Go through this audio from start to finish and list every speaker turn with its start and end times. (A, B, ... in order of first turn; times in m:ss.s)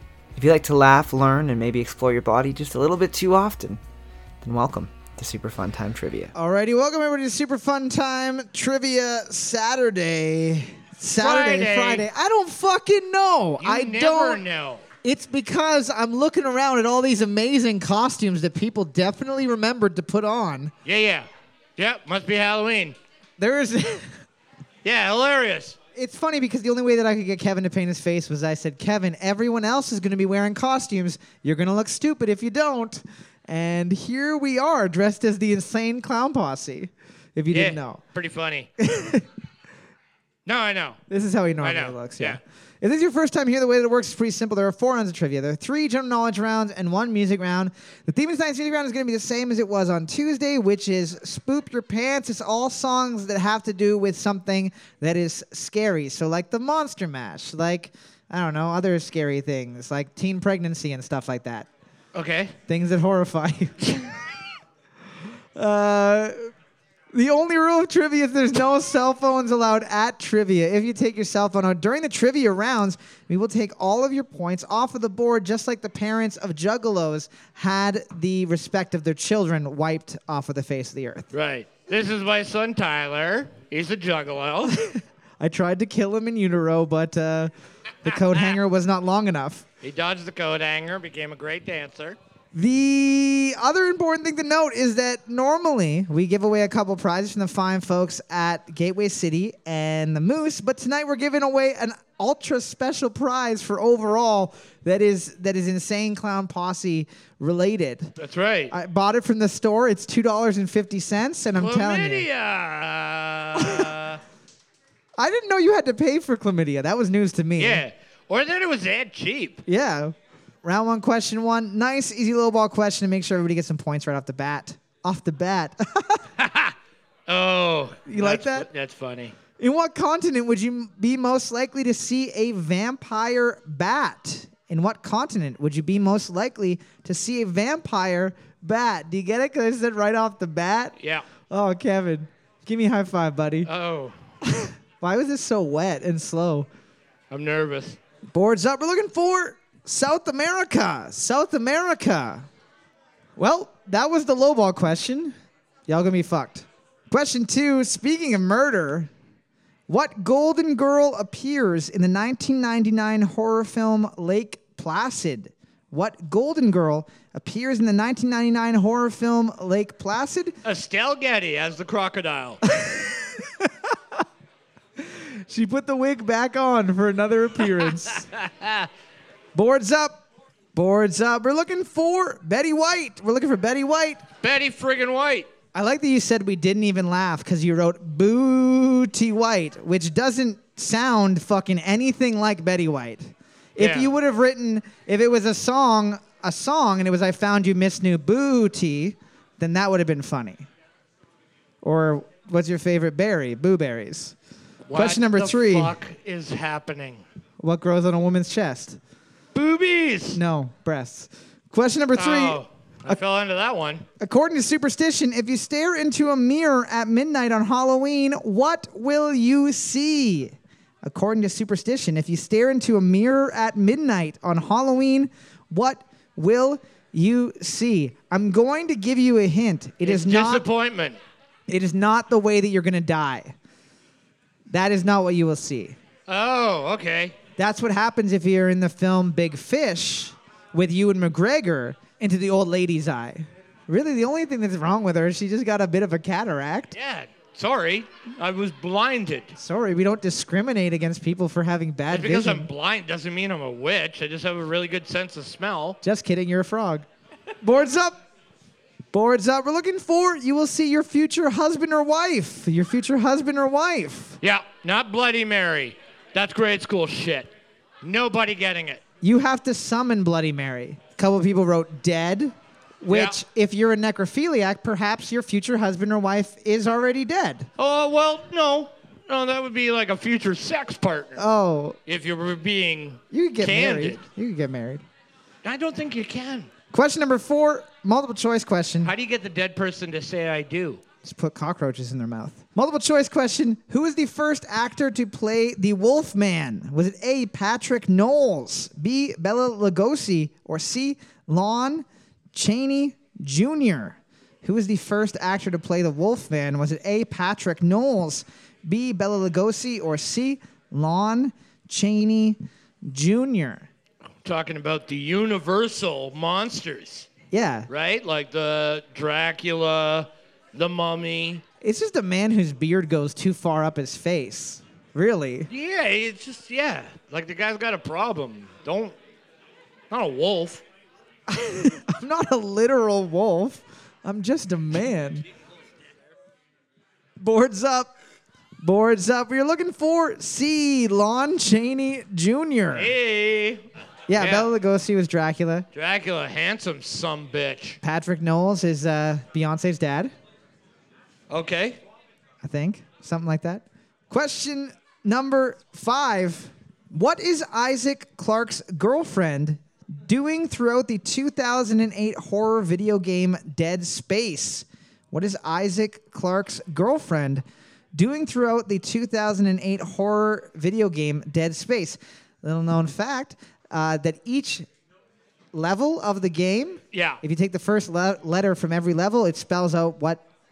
0:00.3-0:03.8 A
0:04.4-0:06.3 A
0:06.3-0:14.4 B
0:11.1-0:12.1 C
0:13.6-0:14.8 C
0:15.0-0:20.7 B
0:20.8-0:23.0 C
0:23.4-0:24.1 B
0:24.8-0:25.8 C
0:25.9-0:38.0 B
0:37.5-0:38.7 C
0:38.8-0:39.2 B
0:40.4-0:41.0 C
0:41.1-1:01.7 B
0:41.6-0:42.4 C
1:02.1-1:02.5 C
1:02.7-1:04.0 B
1:05.6-1:06.5 B
1:07.1-1:21.3 B
1:21.3-1:24.8 C
1:24.9-1:27.5 B
1:28.0-1:29.6 B
1:29.8-1:32.2 C
1:32.5-1:48.1 B
1:48.2-1:48.7 C
1:48.7-1:52.2 B
1:51.5-1:54.2 C
1:53.6-1:53.9 B
1:55.2-1:57.8 B
1:57.6-1:59.6 C
1:59.6-2:06.2 B
2:06.4-2:06.7 C
2:07.3-2:09.4 C
2:08.1-2:08.7 B
2:09.6-2:21.0 B
2:21.0-2:21.2 C
2:21.5-2:23.7 B
2:23.6-2:24.2 C
2:24.5-2:26.7 B
2:27.3-2:28.0 C
2:28.3-2:32.4 B
2:33.4-2:35.4 B
2:35.9-2:39.1 B
2:39.9-2:50.6 B
2:50.6-2:52.6 C
2:52.7-2:53.7 B
2:55.0-2:58.3 B
2:57.7-2:58.9 C
2:59.5-3:00.2 B
3:00.7-3:04.2 B
3:04.4-3:05.5 C
3:05.7-3:20.7 B
3:13.8-3:14.1 C
3:21.8-3:24.3 B
3:24.9-3:27.2 C
3:24.9-3:26.0 B
3:27.6-3:29.0 B
3:29.5-3:30.4 C
3:30.3-3:33.2 B
3:32.1-3:34.0 C
3:34.2-3:50.6 B
3:50.0-3:51.2 C
3:51.7-3:53.5 B
3:54.7-3:56.0 B
3:56.3-3:57.4 C
3:57.6-4:06.9 B
4:06.9-4:09.5 C
4:09.5-4:12.7 B
4:12.1-4:16.0 C
4:16.0-4:17.0 B
4:17.6-4:18.2 B
4:19.1-4:24.4 B
4:24.4-4:29.0 C
4:29.2-4:37.7 B
4:33.1-4:33.4 C
4:37.8-4:41.4 C
4:41.4-4:42.0 B
4:42.1-4:44.2 C
4:43.3-4:45.0 B
4:45.6-4:46.7 C
4:46.9-4:49.1 B
4:49.0-4:51.0 C
4:51.2-5:13.9 B
5:14.4-5:17.3 C
5:17.5-5:17.9 B
5:17.9-5:21.6 C
5:21.8-5:25.7 B
5:25.7-5:29.2 C
5:30.1-5:30.8 C
5:31.5-5:35.4 B
5:37.4-5:38.1 B
5:38.8-5:43.1 B
5:42.9-5:44.7 C
5:44.3-5:45.9 B
5:45.9-5:48.0 C
5:48.0-5:50.3 B
5:51.5-5:52.0 C
5:52.6-6:14.8 B
6:15.7-6:20.4 B
6:17.1-6:17.4 C